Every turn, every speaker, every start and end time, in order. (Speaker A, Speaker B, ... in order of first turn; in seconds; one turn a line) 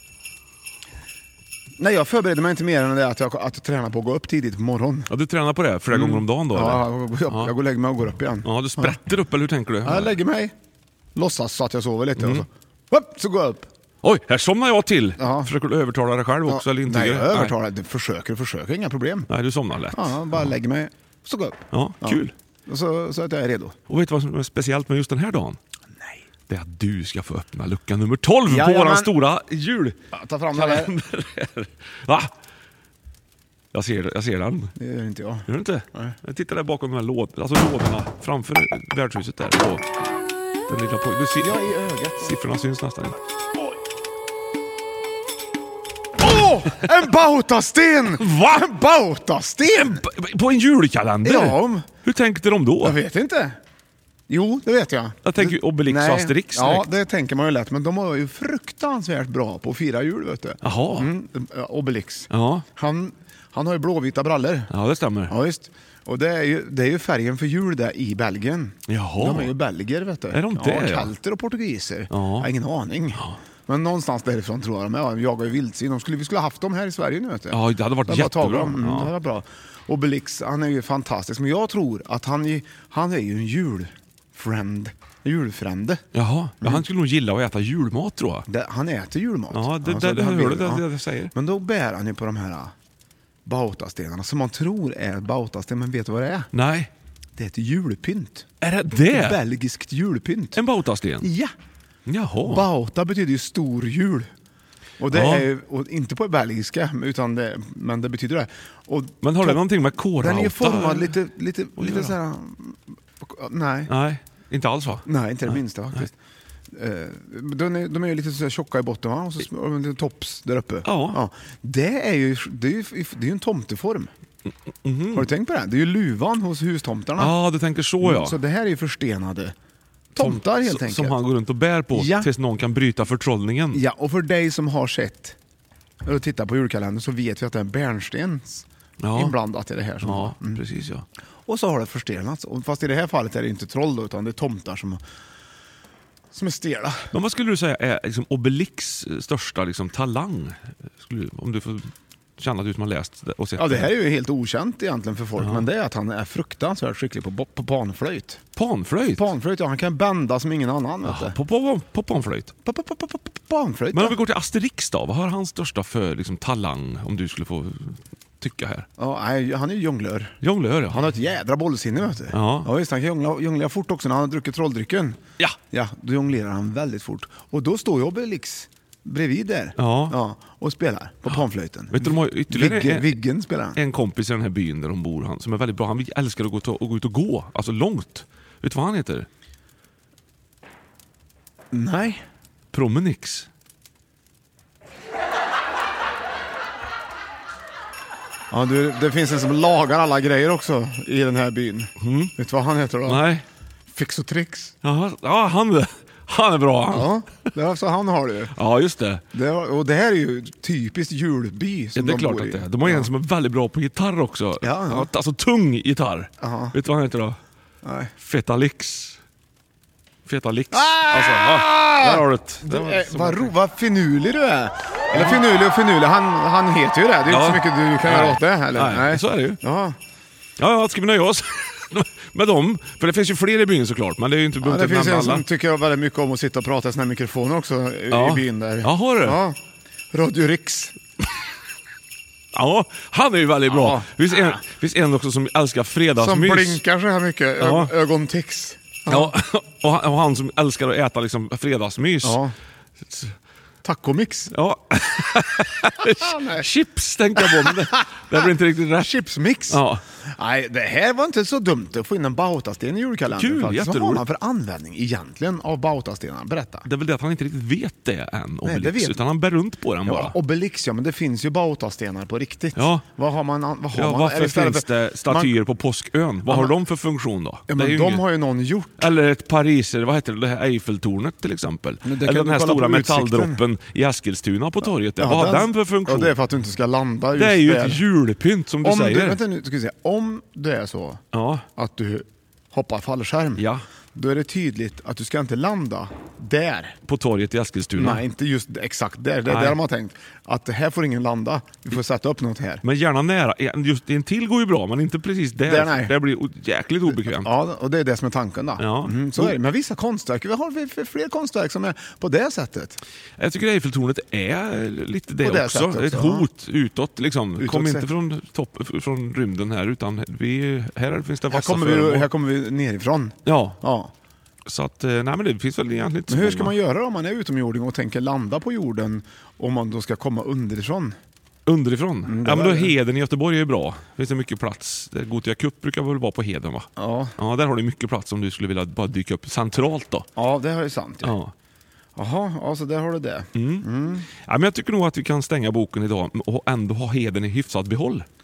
Speaker A: 1.8-5.1
Speaker B: 5.1-7.5
Speaker A: 5.9-9.0
Speaker B: 8.4-10.2
Speaker A: 9.8-10.6
Speaker A: 11.2-13.7
Speaker B: 12.2-12.4
Speaker B: 14.0-17.6
Speaker A: 15.2-15.5
Speaker A: 16.5-19.3
Speaker B: 19.3-20.5
Speaker A: 19.9-23.8
Speaker B: 21.7-22.3
Speaker B: 23.9-25.6
Speaker B: 26.5-30.0
Speaker A: 28.5-29.1
Speaker A: 30.1-30.9
Speaker B: 30.5-32.3
Speaker B: 33.7-34.7
Speaker A: 34.8-36.2
Speaker B: 35.5-39.9
Speaker B: 40.7-41.6
Speaker A: 41.4-42.4
Speaker B: 42.2-43.2
Speaker A: 46.2-50.0
Speaker B: 48.2-48.6
Speaker B: 49.7-53.0
Speaker A: 51.2-51.9
Speaker A: 52.8-53.6
Speaker A: 54.3-64.7
Speaker B: 55.2-56.9
Speaker B: 60.6-61.1
Speaker B: 62.3-62.6
Speaker B: 64.7-65.3
Speaker A: 65.3-86.0
Speaker B: 68.9-69.5
Speaker B: 70.3-71.1
Speaker B: 72.1-72.5
Speaker B: 77.5-79.1
Speaker B: 86.1-88.5
Speaker A: 88.5-92.7
Speaker B: 89.5-91.3
Speaker A: 93.5-96.5
Speaker B: 96.5-96.9
Speaker A: 97.4-98.5
Speaker B: 98.6-99.4
Speaker A: 99.1-100.6
Speaker B: 100.5-101.3
Speaker A: 101.2-101.5
Speaker B: 102.1-102.7
Speaker A: 102.4-104.3
Speaker A: 105.0-109.6
Speaker B: 105.1-105.5
Speaker B: 109.2-111.1
Speaker A: 110.2-113.9
Speaker B: 111.8-112.2
Speaker B: 113.9-116.1
Speaker A: 115.0-116.1
Speaker A: 116.7-124.1
Speaker B: 120.8-121.2
Speaker B: 124.8-125.3
Speaker A: 125.1-127.3
Speaker B: 127.2-128.4
Speaker A: 128.0-129.5
Speaker A: 130.1-131.2
Speaker B: 130.2-133.8
Speaker A: 131.9-132.3
Speaker A: 133.7-135.4
Speaker A: 136.1-140.6
Speaker B: 139.0-139.4
Speaker B: 140.0-141.1
Speaker A: 141.5-145.0
Speaker A: 146.3-147.1
Speaker B: 147.1-153.9
Speaker A: 153.6-158.4
Speaker B: 155.4-155.7
Speaker B: 158.6-159.3
Speaker A: 159.1-161.4
Speaker B: 161.0-162.5
Speaker A: 162.6-164.2
Speaker B: 163.9-168.9
Speaker A: 169.0-175.2
Speaker B: 170.4-171.0
Speaker B: 172.3-172.7
Speaker A: 175.7-183.8
Speaker B: 179.8-180.2
Speaker B: 181.9-183.2
Speaker B: 183.8-189.3
Speaker A: 191.7-192.2
Speaker B: 192.7-193.5
Speaker A: 198.5-203.2
Speaker B: 202.0-202.3
Speaker B: 203.1-203.4
Speaker A: 203.9-204.7
Speaker B: 204.8-207.1
Speaker A: 206.9-208.5
Speaker B: 208.6-209.2
Speaker A: 209.3-213.1
Speaker B: 211.9-217.4
Speaker A: 214.6-215.1
Speaker A: 216.4-216.8
Speaker A: 217.8-218.1
Speaker B: 218.2-219.2
Speaker B: 220.3-223.5
Speaker A: 220.7-230.0
Speaker B: 225.1-225.4
Speaker B: 227.3-229.6
Speaker B: 230.6-235.5
Speaker A: 234.6-239.6
Speaker B: 238.1-239.4
Speaker A: 240.1-241.0
Speaker B: 242.5-246.8
Speaker A: 243.7-244.6
Speaker A: 246.2-249.3
Speaker B: 247.6-247.9
Speaker B: 249.1-252.4
Speaker A: 252.2-252.5
Speaker A: 253.8-254.5
Speaker B: 254.5-259.1
Speaker A: 256.1-256.7
Speaker A: 259.0-266.9
Speaker B: 259.7-260.0
Speaker B: 263.3-264.2
Speaker B: 266.9-270.4
Speaker A: 268.6-269.2
Speaker A: 270.1-275.6
Speaker B: 272.8-273.1
Speaker B: 273.9-278.2
Speaker A: 276.5-276.8
Speaker A: 277.7-279.1
Speaker B: 279.0-286.3
Speaker A: 282.0-283.6
Speaker A: 285.1-288.1
Speaker B: 287.4-289.4
Speaker A: 288.8-291.2
Speaker B: 291.3-291.6
Speaker A: 291.8-297.0
Speaker B: 293.6-293.9
Speaker B: 297.1-298.2
Speaker A: 298.0-302.8
Speaker B: 299.5-299.8
Speaker B: 302.8-307.5
Speaker A: 305.6-306.2
Speaker A: 307.1-313.0
Speaker B: 308.8-309.6
Speaker B: 313.4-322.3
Speaker A: 315.4-316.5
Speaker A: 317.6-318.1
Speaker A: 321.5-324.1
Speaker B: 323.4-323.8
Speaker B: 324.7-326.8
Speaker A: 326.3-331.2
Speaker B: 331.7-340.3
Speaker A: 332.2-332.9
Speaker A: 337.0-337.3
Speaker A: 340.4-341.4
Speaker B: 341.2-341.5
Speaker A: 342.2-344.3
Speaker B: 343.6-343.9
Speaker B: 344.4-348.3